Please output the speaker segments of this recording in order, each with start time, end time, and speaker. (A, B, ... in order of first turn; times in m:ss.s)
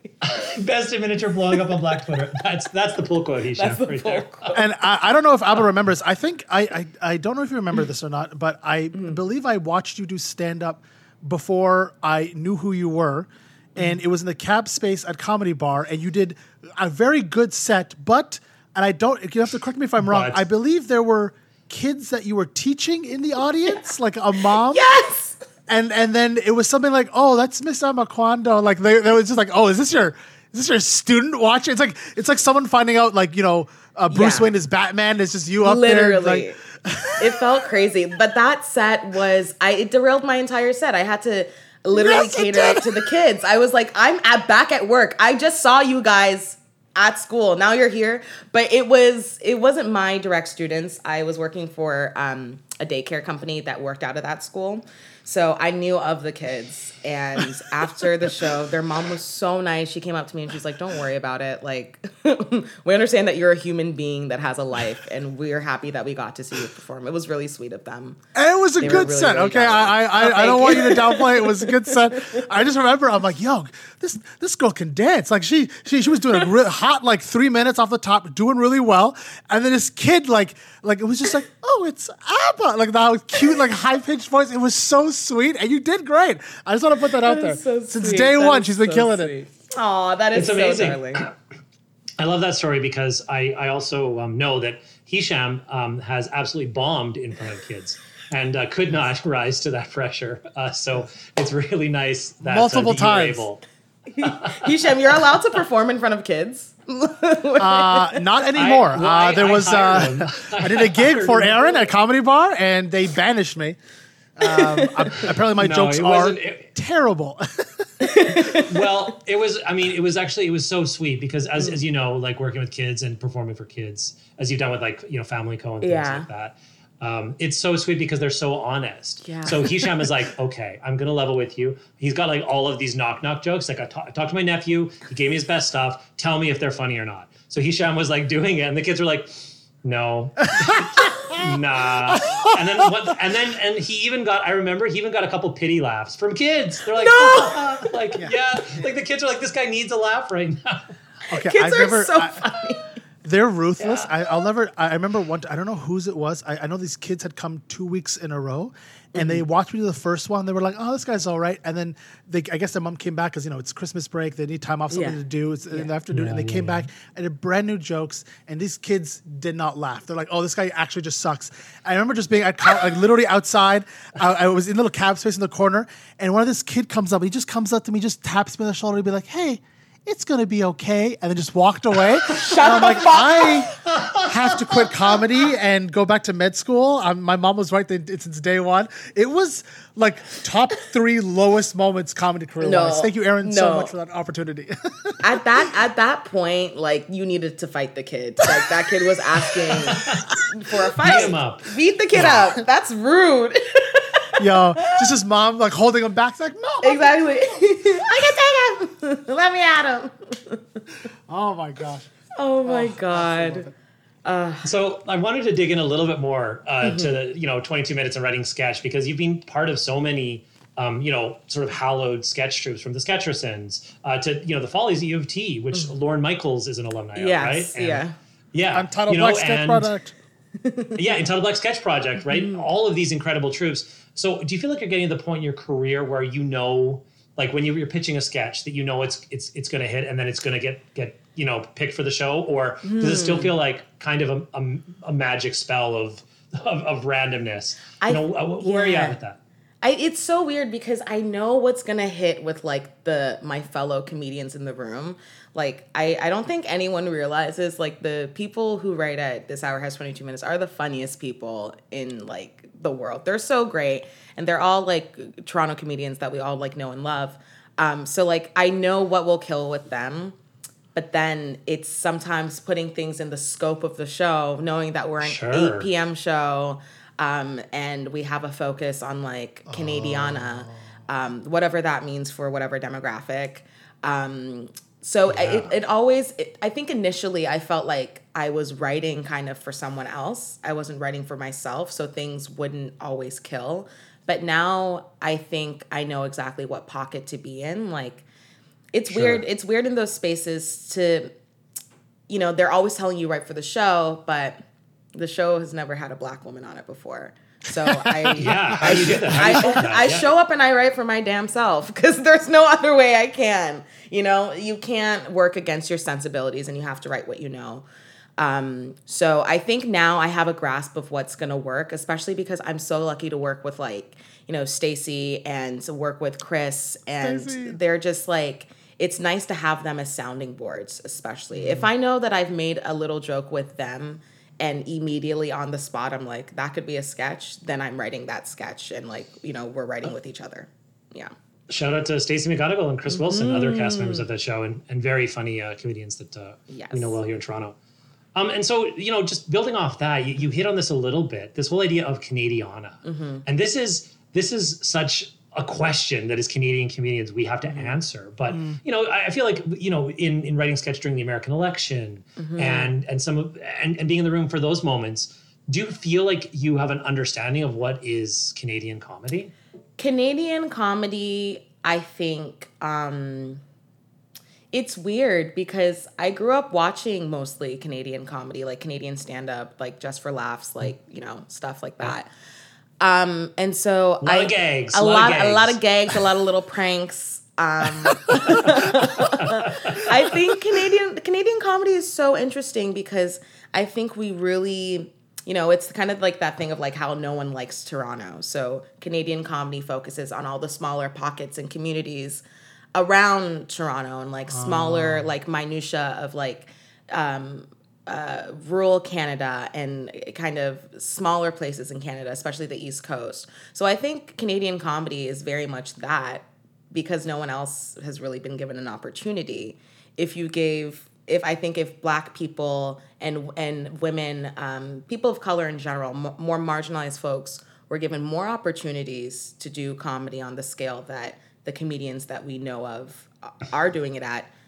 0:00.2-0:04.4 A
0:03.5-0:04.5 B
0:04.5-0:24.8 C
0:20.0-0:20.4 A
0:24.6-0:25.4 B
0:25.7-0:37.3 C
0:34.1-0:34.5 B
0:35.6-0:36.6 B
0:37.2-1:08.2 B
0:41.9-0:43.0 C
1:08.3-1:29.3 C
1:08.8-1:12.4 B
1:27.2-1:31.2 B
1:30.3-1:31.3 A
1:32.2-1:43.6 A
1:42.4-1:43.4 C
1:44.1-1:48.2 B
1:44.2-1:44.7 A
1:47.6-1:53.8 C
1:48.5-1:51.7 A
1:54.4-1:57.8 C
1:54.4-1:55.1 B
1:55.4-1:56.7 A
1:58.0-1:58.9 B
1:58.5-2:30.8 A
2:05.8-2:06.3 B
2:09.2-2:10.1 B
2:20.6-2:21.4 C
2:22.0-2:22.9 C
2:26.9-2:27.9 B
2:28.2-2:28.9 C
2:31.3-2:32.4 C
2:31.3-2:32.8 B
2:33.2-3:15.7 C
2:33.8-2:34.1 B
2:39.1-2:39.4 B
2:44.9-2:45.9 B
2:46.1-2:46.9 A
3:02.3-3:03.7 B
3:03.9-3:04.3 A
3:04.6-3:05.1 B
3:12.6-3:13.9 B
3:15.2-3:25.0 B
3:19.7-3:20.1 C
3:19.9-3:20.2 A
3:21.0-3:22.3 A
3:22.2-3:22.6 C
3:24.4-3:27.4 C
3:26.8-3:30.8 B
3:31.3-3:32.1 C
3:32.4-3:33.7 B
3:32.6-3:33.7 C
3:34.2-3:34.7 B
3:34.6-3:49.9 A
3:36.8-3:37.1 B
3:47.2-3:48.2 B
3:48.7-3:50.1 C
3:50.6-3:51.0 B
3:51.0-4:09.4 A
3:52.3-3:52.6 B
4:02.8-4:03.5 B
4:08.0-4:09.2 B
4:09.8-4:30.4 B
4:30.9-4:58.2 B
4:35.2-4:35.9 A
4:39.6-4:40.8 C
4:45.3-4:45.7 A
4:58.9-5:01.3 B
4:59.1-4:59.4 A
5:02.3-5:04.6 B
5:05.1-5:17.8 B
5:07.8-5:09.5 C
5:08.4-5:10.3 A
5:18.4-5:41.3 B
5:27.2-5:27.8 C
5:41.7-5:47.8 A
5:43.1-5:44.2 B
5:46.7-5:47.2 B
5:48.3-6:09.5 A
5:53.0-5:53.4 B
5:58.5-5:58.8 C
6:02.4-6:02.9 B
6:10.0-6:13.6 B
6:14.7-6:22.3 B
6:23.0-6:42.4 B
6:24.2-6:25.8 A
6:29.2-6:30.0 A
6:42.9-7:14.5 B
6:44.5-6:45.3 C